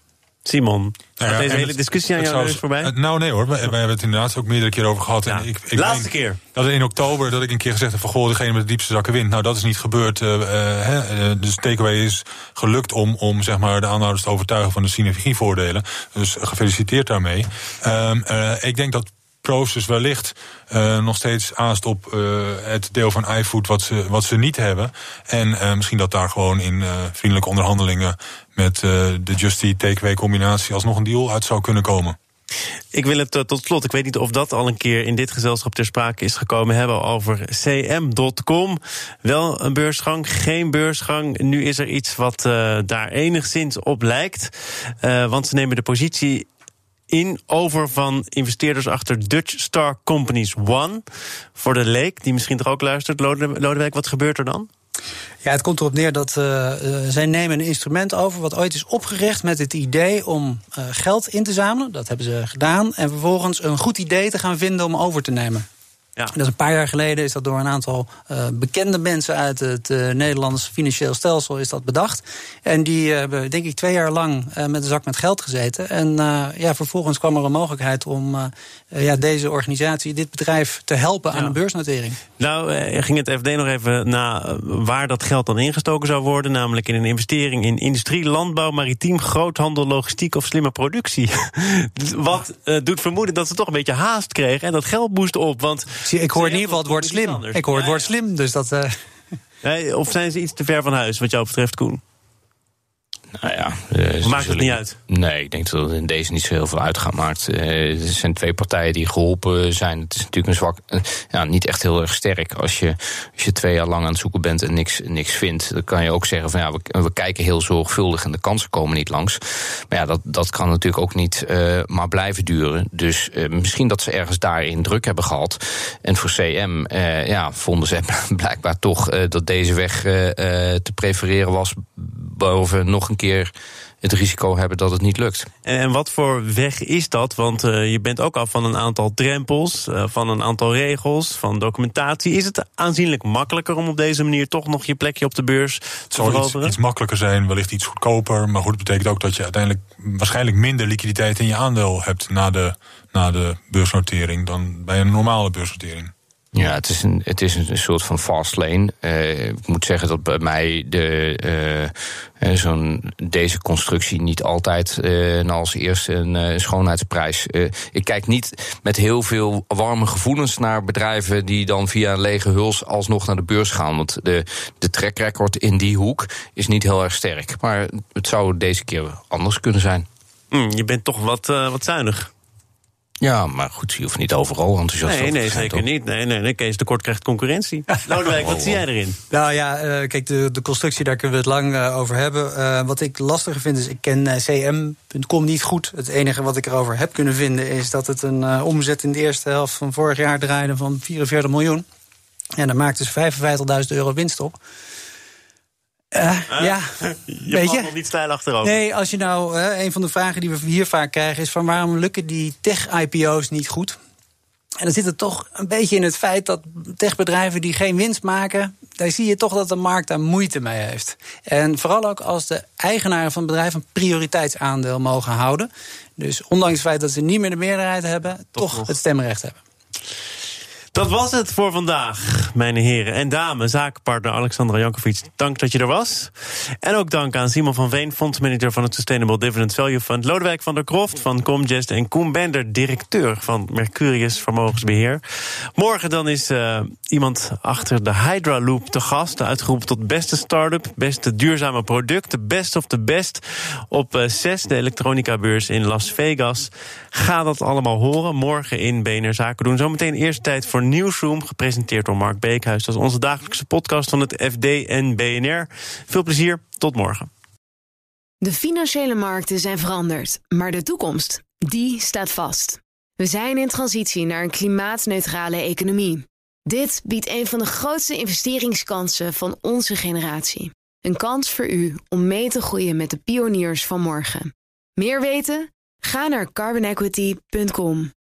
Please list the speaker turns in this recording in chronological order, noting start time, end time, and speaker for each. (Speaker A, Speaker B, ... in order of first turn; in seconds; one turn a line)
Speaker A: 0.4-2.9
Speaker B: 1.2-32.2
Speaker A: 5.3-6.4
Speaker A: 32.9-46.5
Speaker A: 47.1-51.0
Speaker A: 51.5-54.7
Speaker C: 55.4-65.7
Speaker C: 66.3-82.2
Speaker A: 81.3-81.5
Speaker A: 82.4-98.1
Speaker C: 96.0-98.9
Speaker A: 99.6-102.0
Speaker D: 103.3-135.5
Speaker A: 104.2-105.0
Speaker A: 135.6-146.8
Speaker B: 146.1-156.1
Speaker D: 156.5-180.1
Speaker A: 180.5-182.3
Speaker D: 183.2-185.8
Speaker A: 185.0-189.2
Speaker D: 188.4-188.8
Speaker C: 189.3-201.8
Speaker C: 202.6-204.6
Speaker C: 206.1-206.9
Speaker A: 206.5-208.8
Speaker C: 207.4-207.9
Speaker C: 208.6-214.0
Speaker C: 214.8-229.6
Speaker A: 228.6-228.9
Speaker A: 230.9-267.3
Speaker E: 268.4-288.1